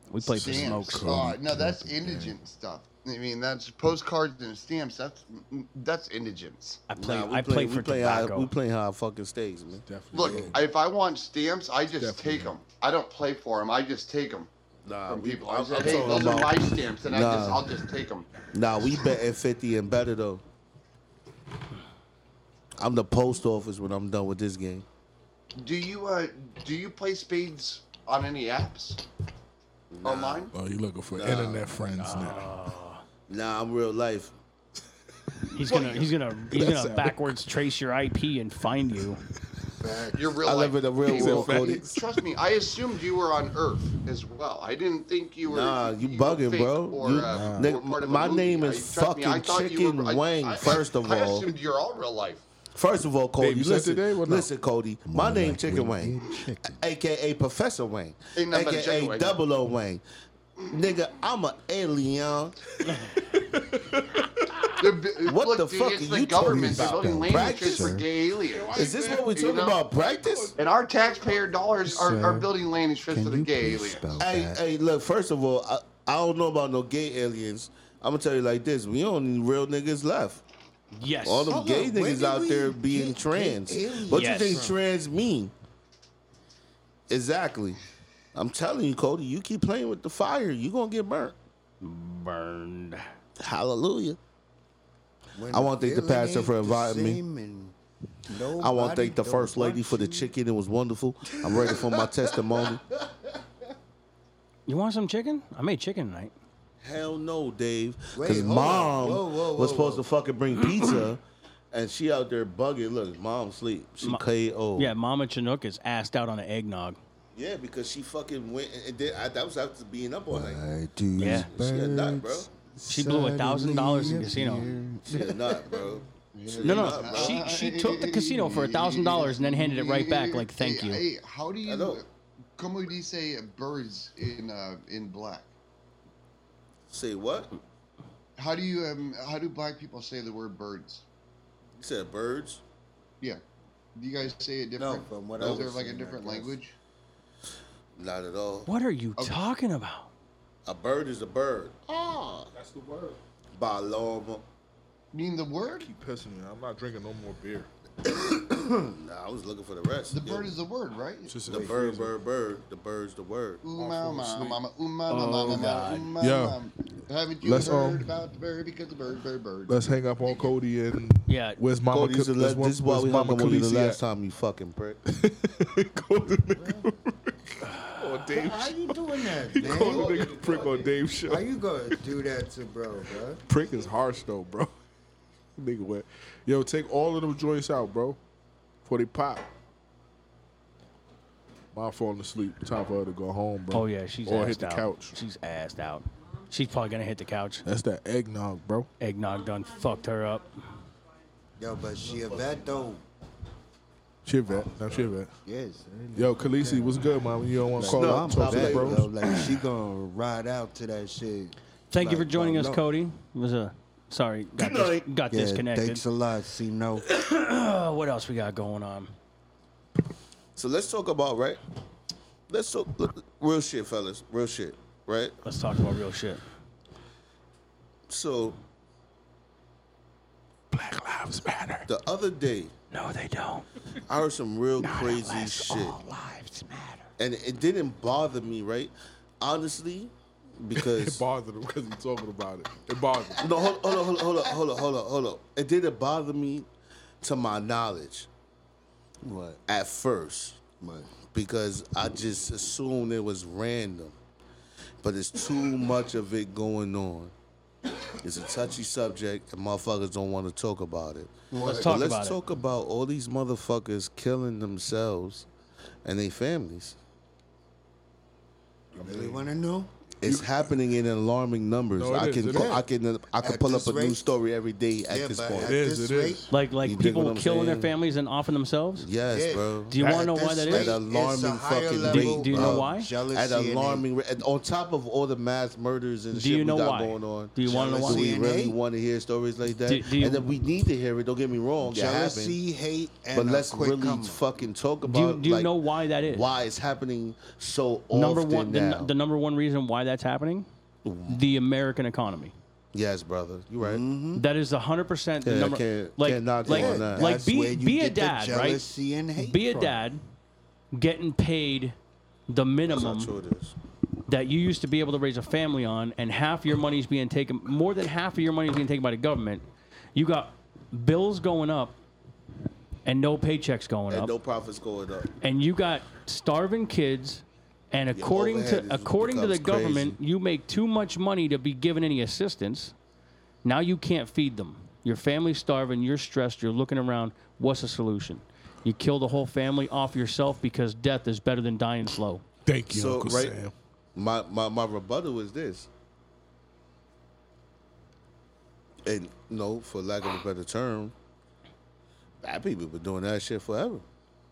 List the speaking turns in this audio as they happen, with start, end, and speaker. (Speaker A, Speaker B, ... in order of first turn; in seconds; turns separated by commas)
Speaker A: 0.1-1.2, Speaker B: 0.3-6.8, Speaker C: 0.4-2.4, Speaker A: 6.9-8.5, Speaker D: 7.0-9.9, Speaker C: 9.9-10.6, Speaker B: 10.1-14.5, Speaker C: 12.0-12.5, Speaker D: 14.9-17.7, Speaker B: 15.1-18.3, Speaker D: 18.5-20.4, Speaker D: 22.8-24.9, Speaker B: 25.6-29.0, Speaker D: 29.9-30.5, Speaker B: 30.0-30.5, Speaker C: 30.5-32.5, Speaker D: 31.1-31.7, Speaker A: 31.9-33.0, Speaker D: 33.3-34.3, Speaker A: 35.5-39.2, Speaker C: 35.6-36.0, Speaker C: 36.5-37.4, Speaker E: 39.8-40.2, Speaker B: 40.1-52.5, Speaker D: 40.4-41.8, Speaker C: 41.1-42.2, Speaker D: 45.4-51.5, Speaker C: 47.2-47.7, Speaker D: 52.8-60.0, Speaker C: 53.4-54.5, Speaker E: 55.1-56.8, Speaker B: 58.4-59.4, Speaker D: 60.7-62.6, Speaker C: 62.9-64.8, Speaker B: 64.8-69.8, Speaker D: 65.2-68.0, Speaker E: 66.4-68.0, Speaker C: 68.3-70.6, Speaker D: 68.7-70.5, Speaker B: 70.6-74.1, Speaker E: 71.8-72.5, Speaker E: 73.1-74.6, Speaker D: 74.2-80.4, Speaker A: 80.9-81.6, Speaker D: 81.2-85.5, Speaker E: 81.5-84.8, Speaker A: 84.1-84.7, Speaker D: 87.1-87.8, Speaker D: 88.3-91.4, Speaker A: 91.8-93.1, Speaker D: 93.4-94.2, Speaker E: 95.4-97.8, Speaker D: 95.5-97.2, Speaker E: 98.3-100.3, Speaker D: 98.6-102.9, Speaker E: 101.3-102.8, Speaker A: 104.7-106.3, Speaker D: 106.8-111.2, Speaker E: 108.1-110.1, Speaker D: 111.7-114.9, Speaker A: 114.8-117.0, Speaker D: 117.3-120.6, Speaker E: 120.3-125.6, Speaker D: 121.2-122.5, Speaker A: 121.2-121.5, Speaker A: 122.9-124.7, Speaker D: 125.0-127.5, Speaker B: 126.3-135.5, Speaker A: 126.6-131.0, Speaker D: 131.7-132.0, Speaker D: 136.9-137.5, Speaker B: 138.4-141.1, Speaker D: 141.8-142.6, Speaker B: 143.9-146.8, Speaker E: 144.8-146.6, Speaker D: 145.4-145.7, Speaker D: 148.0-148.7, Speaker A: 148.7-150.1, Speaker D: 150.7-152.5, Speaker C: 152.6-153.2, Speaker D: 153.6-154.4, Speaker B: 155.1-155.9, Speaker C: 155.6-157.7, Speaker D: 158.7-160.5, Speaker B: 160.1-161.4, Speaker C: 161.3-162.1, Speaker D: 161.5-163.7, Speaker E: 161.5-161.8, Speaker B: 163.6-170.5, Speaker C: 163.8-164.6, Speaker A: 165.1-166.1, Speaker C: 165.1-166.6, Speaker C: 167.4-168.1, Speaker C: 169.7-174.0, Speaker A: 171.3-171.6, Speaker D: 171.9-175.0, Speaker C: 175.1-181.9, Speaker E: 176.6-176.9, Speaker A: 177.7-178.0, Speaker E: 178.3-180.4, Speaker D: 179.6-180.9, Speaker E: 181.3-183.4, Speaker C: 183.5-184.7, Speaker C: 185.6-188.2, Speaker C: 188.8-189.5, Speaker C: 191.7-195.2, Speaker A: 193.7-197.7, Speaker C: 197.7-198.9, Speaker A: 199.0-200.6, Speaker E: 201.6-203.0, Speaker C: 204.2-205.3, Speaker E: 204.5-207.2, Speaker C: 206.2-209.1, Speaker E: 207.7-212.8, Speaker D: 207.8-209.1, Speaker A: 211.9-216.0, Speaker D: 214.6-215.1, Speaker E: 215.3-217.1, Speaker A: 217.0-219.1, Speaker D: 220.6-221.6, Speaker D: 222.5-225.4, Speaker A: 225.4-226.4, Speaker D: 228.1-228.6, Speaker C: 230.7-231.9, Speaker D: 231.9-232.7, Speaker A: 232.9-233.7, Speaker D: 234.1-236.0, Speaker A: 234.8-237.1, Speaker D: 237.2-241.2, Speaker C: 240.8-243.5, Speaker D: 243.4-246.7, Speaker E: 243.5-244.5, Speaker D: 247.2-248.3, Speaker E: 249.2-249.6, Speaker D: 249.7-250.6, Speaker E: 250.8-251.1, Speaker D: 251.3-254.2, Speaker D: 255.0-257.3, Speaker D: 258.1-265.5, Speaker E: 261.5-262.0, Speaker A: 261.6-262.4, Speaker D: 266.1-267.0, Speaker C: 268.9-269.4, Speaker E: 268.9-269.9, Speaker D: 270.2-275.8, Speaker C: 270.2-270.7, Speaker C: 271.9-272.8, Speaker E: 272.4-272.9, Speaker E: 273.4-274.4, Speaker E: 275.1-276.5, Speaker C: 275.6-276.5, Speaker A: 276.5-279.1, Speaker D: 276.8-277.9, Speaker D: 279.0-279.9, Speaker E: 279.3-284.1, Speaker A: 279.9-280.9, Speaker D: 280.6-292.6, Speaker A: 282.1-283.1, Speaker A: 286.3-288.3, Speaker E: 287.6-288.8, Speaker A: 289.9-290.5, Speaker E: 291.8-294.4, Speaker D: 293.3-295.8, Speaker A: 295.1-296.5, Speaker D: 296.3-299.1, Speaker A: 298.1-300.7, Speaker D: 301.0-301.5, Speaker A: 301.3-302.5, Speaker D: 302.9-304.0, Speaker E: 303.8-304.4, Speaker A: 304.4-308.9, Speaker D: 305.4-307.3, Speaker E: 306.7-309.9, Speaker A: 309.4-310.2, Speaker A: 310.9-311.9, Speaker A: 312.5-313.3, Speaker D: 312.9-313.8, Speaker A: 314.3-319.6, Speaker A: 320.1-321.9, Speaker A: 323.1-324.3, Speaker D: 324.1-325.3, Speaker A: 325.4-332.9, Speaker D: 328.1-330.2, Speaker A: 333.6-342.4, Speaker C: 342.7-343.7, Speaker D: 342.9-343.6, Speaker D: 344.1-345.9, Speaker D: 349.1-351.1, Speaker D: 352.4-354.0